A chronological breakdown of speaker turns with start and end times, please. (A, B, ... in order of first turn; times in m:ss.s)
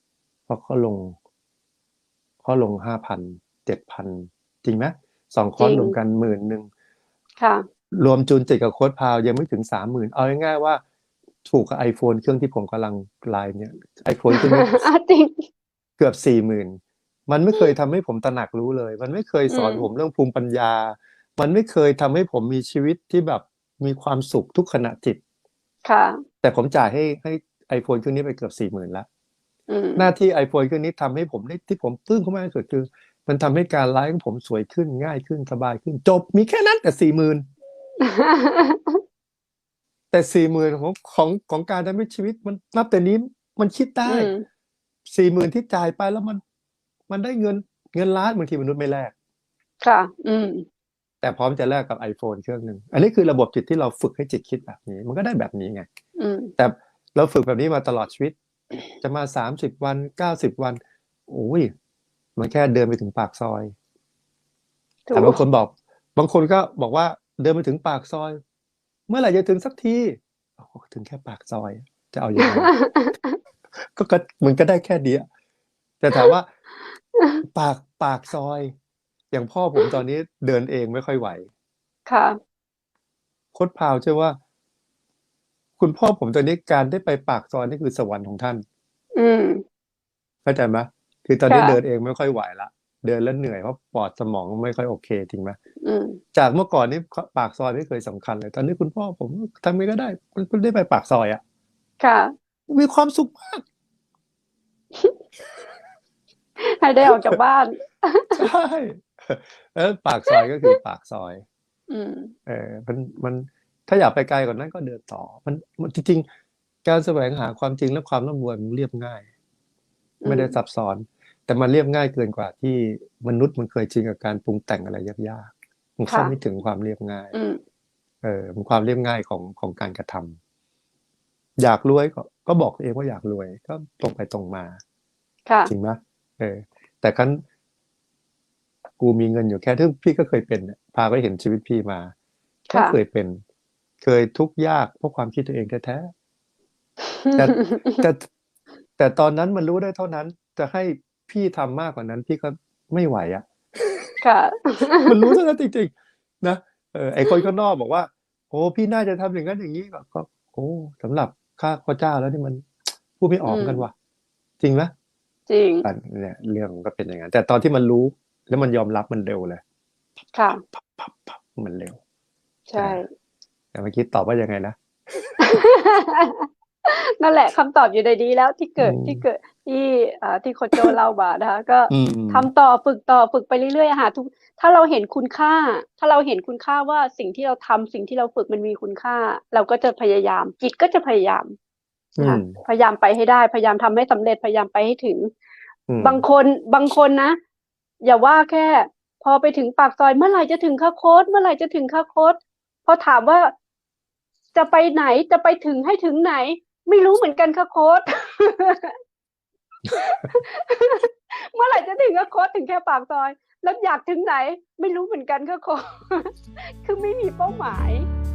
0:00.5-0:01.2 A
0:02.4-0:06.7 A
0:05.6-0:06.0 B
0:07.4-0:07.6 B
0:07.9-0:10.8 A
0:11.4-0:14.9 A
0:14.3-0:15.5 B
0:16.0-0:25.2 A
0:19.5-0:19.9 B
0:25.8-0:26.3 B
0:26.4-0:29.1 A
0:29.7-0:30.1 B
0:30.0-0:37.4 A
0:38.0-0:39.0 B
0:40.1-0:44.3 A
0:44.0-0:44.4 B
0:45.0-0:46.4 A
0:47.1-0:49.1 A
0:49.8-0:50.7 B
0:51.2-0:55.9 A
0:56.2-0:56.5 B
0:56.6-0:58.4 A
0:59.0-1:01.7 A
1:02.4-1:03.7 A
1:05.1-1:05.4 B
1:05.1-1:08.4 A
1:09.1-1:12.7 A
1:12.4-1:13.4 B
1:13.8-1:15.3 A
1:16.0-1:16.5 A
1:17.5-1:18.7 A
1:19.3-1:21.5 A
1:22.1-1:22.4 B
1:23.5-1:24.4 A
1:25.8-1:28.6 A
1:29.2-1:29.6 B
1:30.4-1:35.6 A
1:31.5-1:31.8 B
1:35.8-1:36.2 B
1:36.3-1:41.4 A
1:42.0-1:42.3 B
1:42.7-1:43.6 A
1:46.6-1:48.5 B
1:47.0-1:47.4 A
1:48.3-1:51.4 A
1:50.3-1:50.8 B
1:51.9-1:52.3 B
1:52.5-1:56.3 A
1:56.8-1:59.3 A
2:00.2-2:00.6 B
2:00.2-2:07.3 A
2:06.1-2:06.4 B
2:07.3-2:07.6 B
2:08.2-2:10.4 A
2:11.6-2:14.8 A
2:15.5-2:15.7 B
2:15.7-2:17.4 A
2:19.0-2:22.1 A
2:22.7-2:23.0 B
2:22.7-2:23.4 A
2:24.0-2:26.1 A
2:27.0-2:28.0 B
2:27.3-2:28.3 A
2:29.0-2:34.1 A
2:34.2-2:35.4 B
2:35.0-2:43.9 A
2:43.5-2:43.9 B
2:44.6-2:44.9 A
2:45.5-2:45.9 B
2:45.8-2:49.6 A
2:50.3-2:50.6 B
2:50.7-2:52.0 A
2:52.7-2:53.1 B
2:52.8-2:53.0 A
2:53.7-2:55.6 A
2:55.4-3:11.5 B
2:58.8-2:59.3 A
3:01.9-3:02.5 A
3:12.2-3:12.6 A
3:12.2-3:15.3 B
3:15.9-3:16.3 A
3:16.0-3:17.4 B
3:18.0-3:23.5 B
3:24.5-3:29.0 B
3:29.9-3:38.1 B